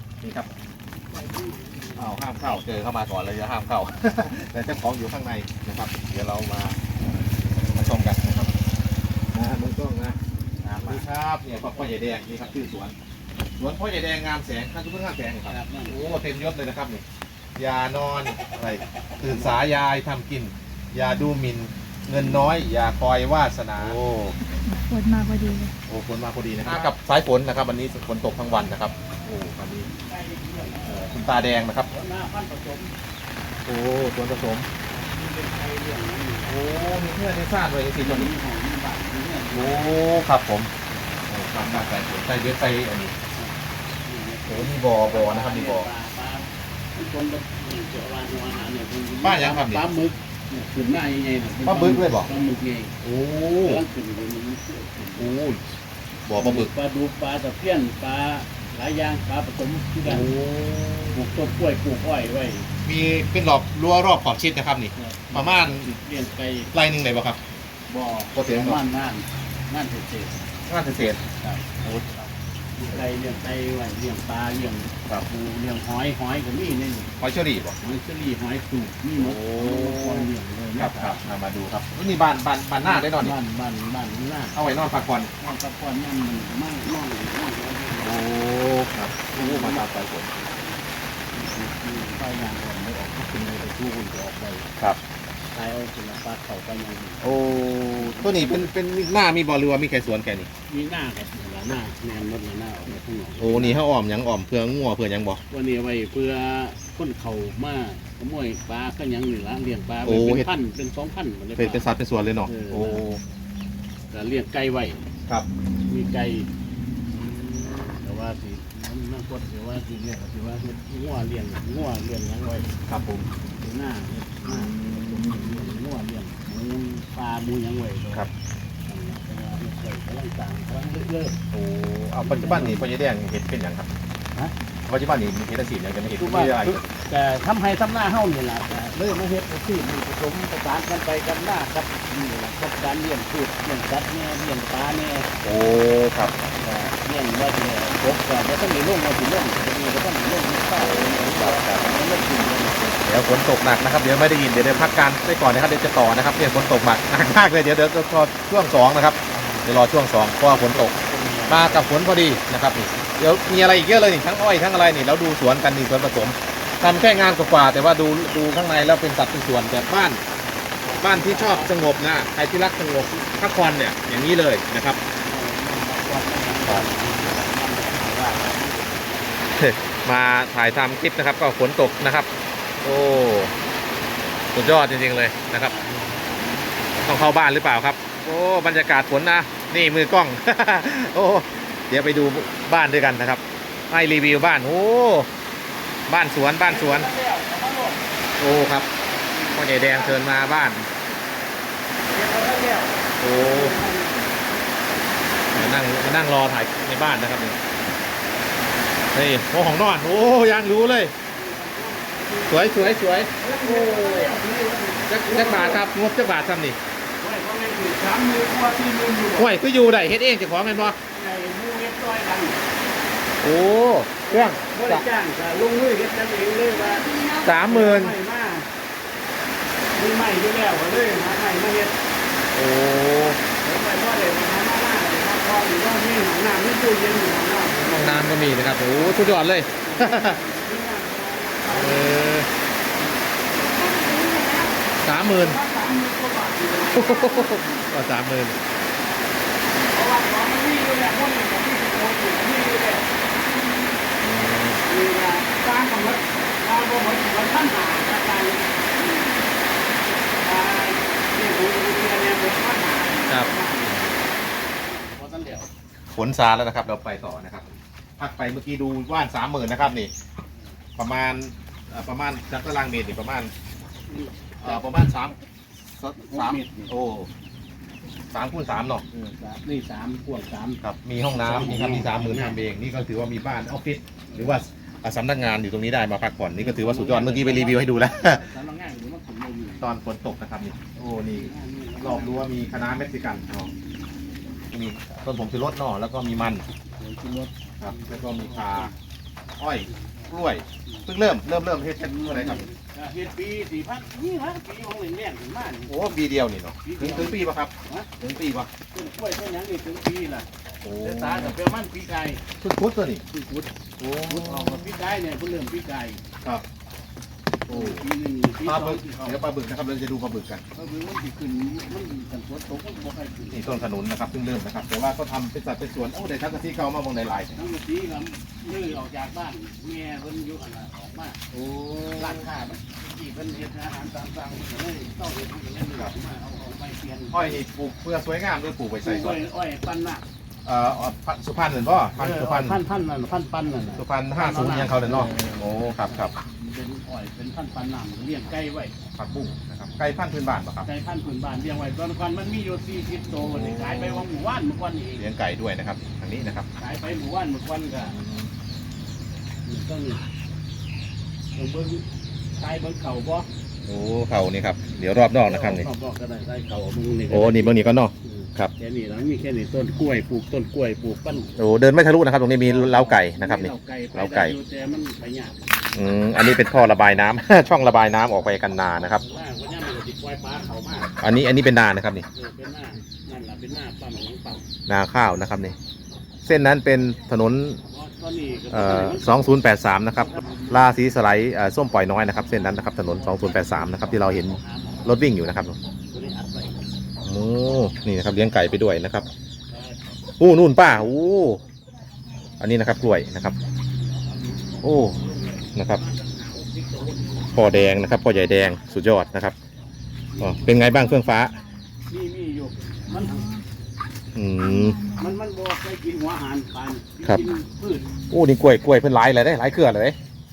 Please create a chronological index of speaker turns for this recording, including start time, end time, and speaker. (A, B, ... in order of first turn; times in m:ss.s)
0:00.2-0:00.5 A
0:01.1-0:02.2 B
0:02.0-0:06.8 A
0:07.6-0:08.5 A
0:09.3-0:10.2 A
0:10.6-0:12.6 B
0:10.8-0:12.9 A
0:13.6-0:17.0 A
0:15.5-0:16.2 B
0:17.6-0:24.4 A
0:19.2-0:19.6 B
0:24.7-0:25.7 C
0:25.9-0:29.9 A
0:26.6-0:26.9 B
0:29.7-0:32.9 B
0:30.9-0:31.9 A
0:33.7-0:34.7 A
0:34.8-0:36.6 B
0:36.5-0:38.3 A
0:38.0-0:39.9 B
0:39.5-0:40.7 A
0:41.3-0:43.1 A
0:43.4-0:52.9 B
0:44.5-0:45.9 A
0:49.2-0:49.8 A
0:51.6-0:52.3 A
0:53.0-0:53.8 A
0:53.6-0:55.4 B
0:55.2-0:55.6 A
0:56.3-0:56.7 A
0:56.4-1:00.4 B
1:00.0-1:01.2 A
1:01.1-1:02.7 B
1:02.8-1:05.9 A
1:05.0-1:06.7 B
1:06.7-1:07.4 A
1:07.9-1:10.4 B
1:08.4-1:08.8 A
1:10.7-1:11.2 A
1:11.4-1:17.2 B
1:17.2-1:17.8 A
1:17.8-1:21.3 B
1:19.2-1:23.4 A
1:22.8-1:24.6 B
1:24.5-1:25.3 A
1:25.4-1:28.2 B
1:28.0-1:30.3 A
1:29.3-1:30.7 B
1:31.3-1:34.7 B
1:35.6-1:37.3 B
1:37.2-1:40.5 A
1:38.0-1:38.7 B
1:40.7-1:43.8 B
1:43.4-1:45.4 A
1:45.5-1:51.8 B
1:50.0-1:50.5 A
1:51.6-1:53.2 A
1:52.5-1:53.0 B
1:54.1-1:55.0 B
1:55.9-1:56.5 B
1:57.1-2:02.7 B
2:02.9-2:03.3 A
2:03.4-2:08.3 B
2:04.5-2:05.6 A
2:08.9-2:11.4 B
2:11.5-2:14.0 A
2:12.2-2:12.9 B
2:14.9-2:16.9 A
2:16.2-2:25.3 B
2:25.4-2:26.3 A
2:26.5-2:33.0 B
2:30.8-2:31.9 A
2:33.0-2:41.0 A
2:34.6-2:34.9 B
2:39.3-2:39.7 B
2:40.7-2:41.9 B
2:41.5-2:50.2 A
2:50.8-2:51.9 B
2:51.0-2:55.0 A
2:55.2-2:59.5 B
2:59.6-3:02.3 A
3:02.8-3:03.5 A
3:04.5-3:05.8 A
3:05.7-3:06.6 B
3:07.0-3:15.3 A
3:16.1-3:17.1 A
3:16.5-3:18.1 B
3:18.4-3:18.9 A
3:19.0-3:20.6 B
3:19.5-3:20.9 A
3:22.0-3:24.5 B
3:23.2-3:23.8 A
3:25.5-3:27.6 A
3:29.1-3:31.1 A
3:31.2-3:35.9 B
3:32.5-3:34.3 A
3:35.1-3:36.8 A
3:37.2-3:39.5 B
3:39.4-3:41.0 A
3:40.7-3:42.6 B
3:43.4-3:45.0 A
3:44.3-3:48.7 B
3:47.4-3:48.2 A
3:49.9-3:52.0 B
3:52.5-3:53.4 A
3:53.5-4:02.3 B
3:57.7-4:00.4 A
4:01.7-4:02.5 A
4:03.4-4:07.8 B
4:05.0-4:05.6 A
4:06.9-4:08.6 A
4:09.8-4:13.1 B
4:14.2-4:14.8 A
4:14.8-4:19.5 B
4:20.4-4:25.7 B
4:23.3-4:24.1 A
4:26.2-4:27.7 A
4:28.2-4:30.1 A
4:31.0-4:33.5 A
4:34.1-4:34.9 B
4:34.6-4:37.3 A
4:36.2-4:36.9 B
4:38.3-4:39.0 A
4:39.1-4:40.8 B
4:40.8-4:48.5 A
4:41.3-4:42.6 B
4:44.3-4:44.6 B
4:46.6-4:49.9 B
4:49.8-4:51.5 A
4:51.0-4:52.6 B
4:52.0-4:53.7 A
4:54.7-4:56.7 A
4:56.9-4:58.9 B
4:57.8-4:58.9 A
4:59.6-5:02.7 A
4:59.9-5:01.0 B
5:02.1-5:06.2 B
5:05.9-5:08.7 A
5:06.8-5:08.1 B
5:08.9-5:12.5 B
5:10.8-5:11.5 A
5:12.6-5:13.2 A
5:13.3-5:16.2 B
5:14.0-5:14.8 A
5:17.7-5:19.4 B
5:17.7-5:18.0 A
5:18.6-5:20.6 A
5:20.8-5:23.9 B
5:23.5-5:27.6 A
5:27.6-5:31.6 B
5:31.6-5:32.4 A
5:32.2-5:37.6 B
5:37.3-5:39.4 A
5:39.0-5:40.2 B
5:40.7-5:42.8 A
5:42.2-5:49.0 B
5:44.0-5:46.3 A
5:49.2-5:50.9 A
5:50.8-5:55.3 B
5:53.4-5:54.2 A
5:55.2-5:56.7 A
5:56.8-5:58.2 B
5:59.7-6:00.2 B
6:01.6-6:02.0 B
6:02.6-6:03.5 B
6:03.9-6:05.9 A
6:05.4-6:11.6 B
6:07.3-6:08.7 A
6:11.6-6:14.6 A
6:12.6-6:15.6 B
6:16.0-6:19.2 A
6:19.2-6:21.2 B
6:21.2-6:22.3 A
6:22.3-6:24.7 B
6:24.9-6:25.8 A
6:26.4-6:27.8 A
6:27.9-6:31.0 B
6:28.7-6:35.8 A
6:32.6-6:35.3 B
6:36.1-6:36.8 B
6:37.3-6:39.3 A
6:39.7-6:40.0 B
6:40.4-6:41.6 A
6:40.8-6:41.3 B
6:42.6-6:43.6 A
6:44.0-6:47.8 B
6:44.8-6:45.2 A
6:45.8-6:46.0 A
6:47.5-6:49.6 A
6:50.3-6:50.8 B
6:50.4-6:51.6 A
6:51.0-6:51.4 C
6:52.1-6:53.5 B
6:53.2-6:53.6 C
6:54.4-6:55.0 A
6:54.6-6:55.3 C
6:55.0-6:58.1 B
6:58.3-7:00.2 A